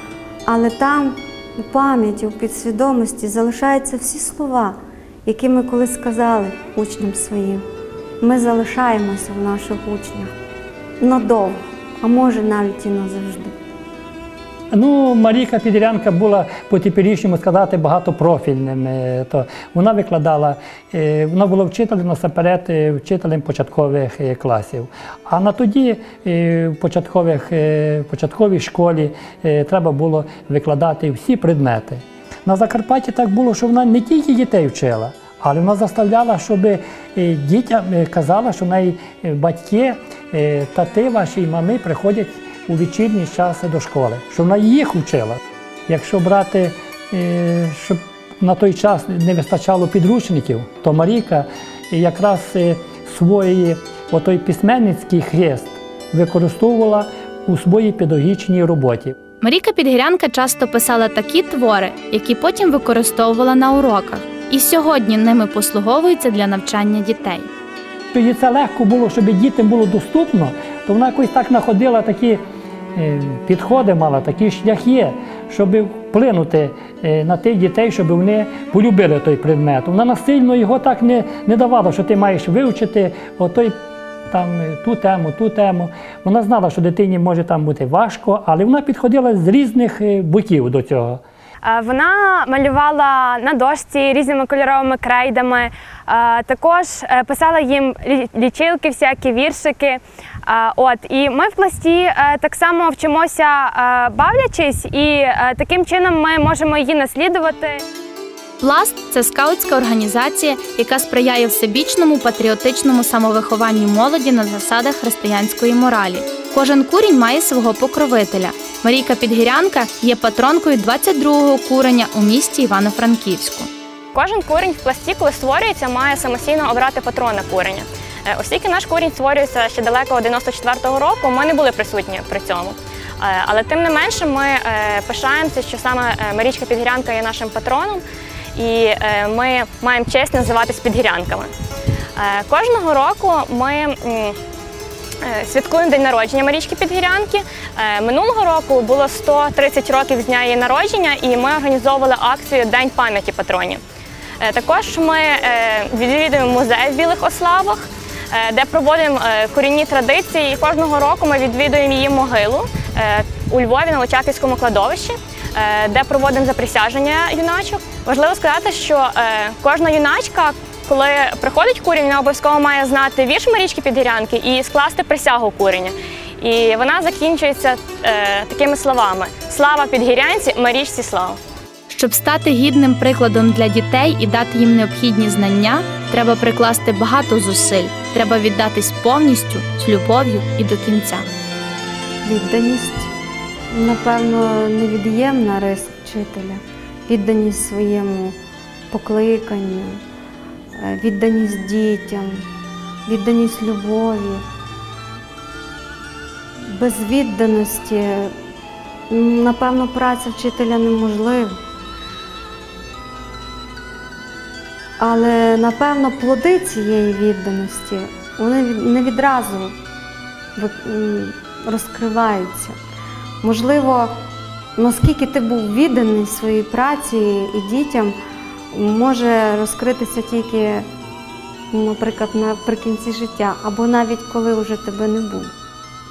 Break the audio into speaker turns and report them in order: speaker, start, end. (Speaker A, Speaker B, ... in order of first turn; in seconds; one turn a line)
Speaker A: 0.5-7.6
Speaker A: 8.2-10.3
Speaker A: 11.0-13.5
Speaker B: 14.7-59.1
Speaker C: 59.4-67.5
Speaker B: 68.1-72.4
Speaker B: 72.9-83.8
Speaker B: 84.3-91.2
Speaker D: 91.6-107.8
Speaker C: 108.6-123.7
Speaker D: 124.1-138.0
Speaker D: 138.5-141.5
Speaker D: 142.2-144.4
Speaker D: 145.2-153.8
Speaker D: 154.4-181.4
Speaker C: 181.9-191.2
Speaker A: 192.2-193.1
Speaker A: 193.7-198.3
Speaker A: 198.9-200.0
Speaker A: 200.8-202.4
Speaker A: 203.1-204.4
Speaker A: 206.7-208.3
Speaker A: 209.1-211.6
Speaker A: 215.0-219.7
Speaker A: 220.6-222.8
Speaker A: 223.4-224.1
Speaker A: 224.8-228.1
Speaker A: 228.7-230.9
Speaker A: 231.7-235.5